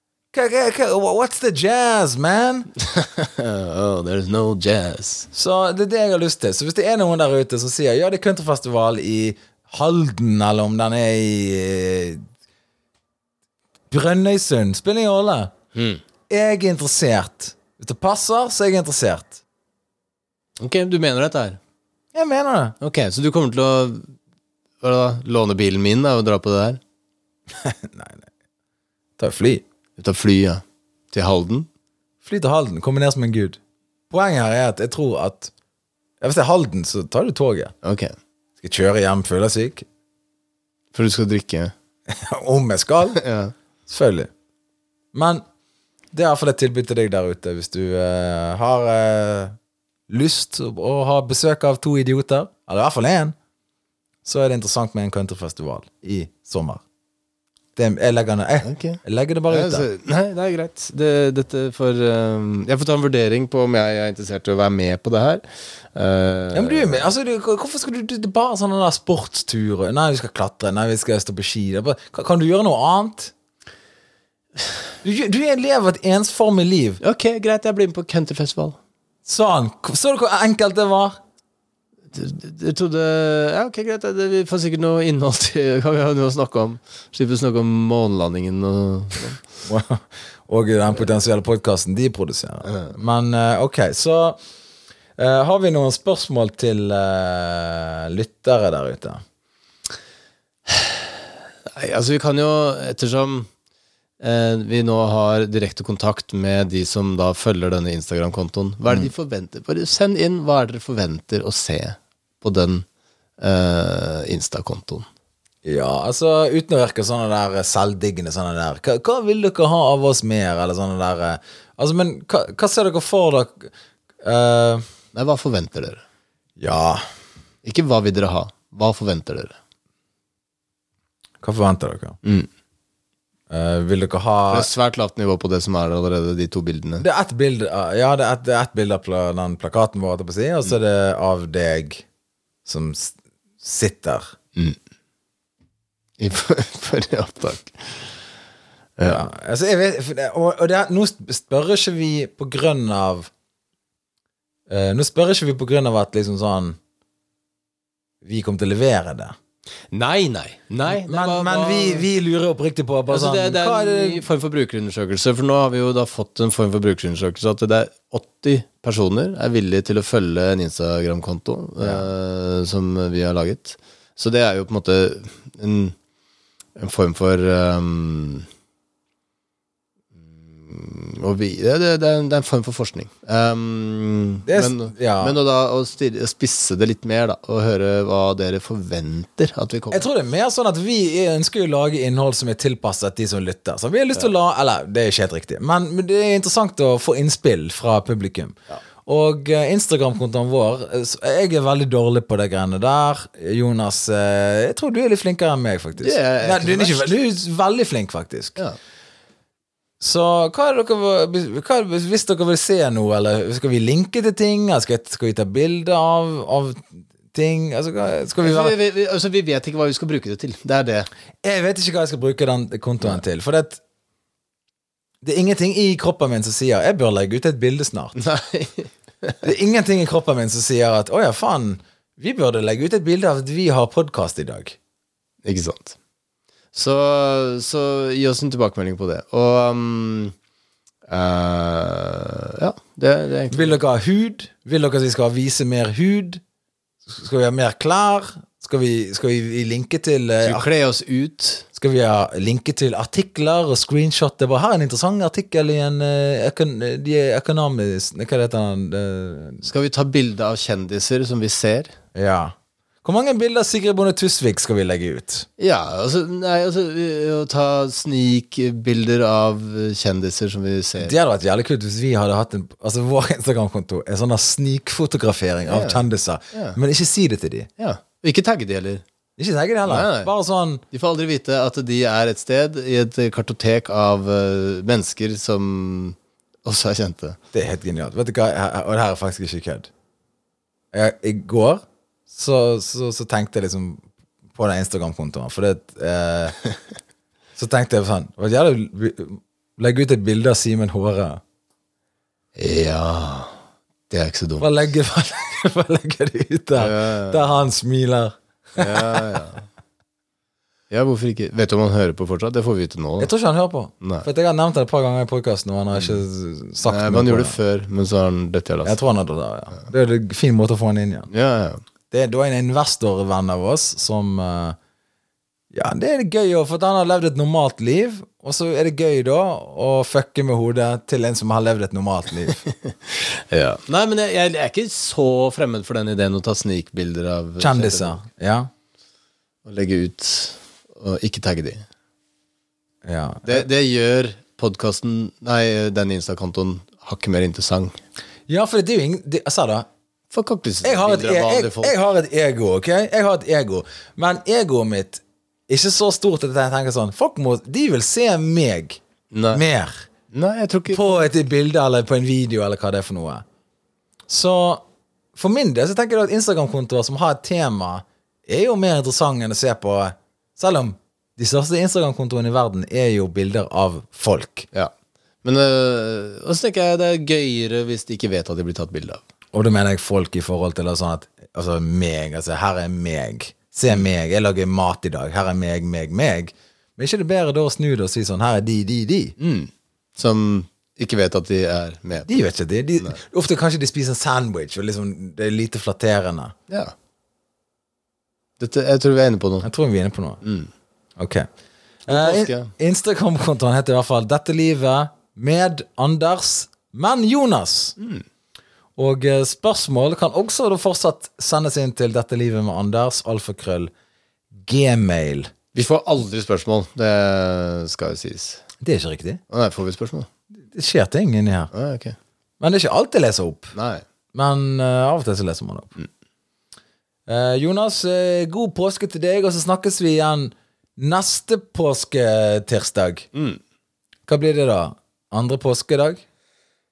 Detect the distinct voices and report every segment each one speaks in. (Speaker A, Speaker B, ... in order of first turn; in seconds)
Speaker A: 0.3-2.7, 5.3-12.2, 13.9-15.5, 16.3-19.4, 22.1-22.8, 27.6-28.3, 29.2-29.6, 32.2-33.6, 34.1-35.5, 36.2-37.7, 38.6-39.9, 42.1-43.2, 43.9-44.3, 45.1-45.4, 46.1-49.5, 50.1-53.3, 54.2-56.8, 57.8-59.9, 66.5-73.3, 75.0-77.0, 79.2-81.2, 89.7-94.4, 95.2-99.2, 115.6-124.9, 126.6-127.0, 131.4-132.2, 133.5-134.7, 137.0-142.0, 142.6-144.3, 149.0-153.3, 154.7-156.8, 158.2-159.3, 160.9-164.2, 171.8-172.1, 184.4-185.4, 189.9-208.6, 210.0-218.7, 221.4-223.8, 225.2-228.1, 229.4-234.8, 243.5-246.4, 247.1-250.7, 251.7-259.6, 262.1-265.4, 271.0-277.7, 279.4-280.8, 287.5-289.9, 290.9-294.0, 294.5-296.6, 297.6-301.4, 304.6-309.4, 313.2-317.6, 318.9-321.3, 322.1-324.8, 325.7-332.6, 337.6-338.7, 343.0-343.7, 348.5-349.9, 350.8-359.0, 359.5-360.1, 360.9-363.4, 364.3-374.7, 379.5-389.3, 392.3-396.5, 399.6-400.4, 401.2-401.5, 402.1-407.9, 409.0-413.9, 414.6-415.5, 418.8-419.4, 420.6-421.7, 422.6-423.7, 424.3-426.0, 427.3-433.3, 434.3-436.2
Speaker B: 2.8-5.3, 15.7-16.0, 20.6-21.6, 22.8-24.1, 24.8-26.8, 30.0-31.7, 37.8-38.1, 40.9-41.7, 43.1-43.5, 58.6-65.4, 65.9-67.1, 77.0-78.8, 82.1-89.4, 92.7-92.9, 100.7-101.0, 101.7-103.5, 104.2-112.8, 113.4-115.1, 125.1-126.0, 127.6-129.6, 132.2-132.5, 134.5-137.0, 146.2-148.0, 149.0-149.2, 159.9-162.1, 163.1-175.9, 176.8-178.5, 180.5-190.1, 206.0-207.1, 218.4-221.1, 228.2-229.4, 235.4-235.9, 236.7-240.3, 241.1-243.8, 250.4-251.7, 259.6-261.9, 265.6-271.1, 275.6-276.8, 277.8-279.0, 279.9-280.3, 280.9-287.4, 302.6-303.6, 304.1-304.7, 306.8-307.5, 308.7-309.6, 310.9-313.3, 314.0-314.2, 316.8-319.0, 321.3-321.8, 333.1-338.2, 339.6-341.8, 343.4-348.0, 350.3-351.9, 359.3-359.6, 360.3-361.2, 375.4-379.2, 389.4-392.3, 396.7-396.9, 398.6-399.7, 400.4-400.7, 402.1-402.7, 408.0-408.2, 415.7-418.6, 419.5-420.3, 421.7-422.1, 423.7-424.0, 433.3-433.6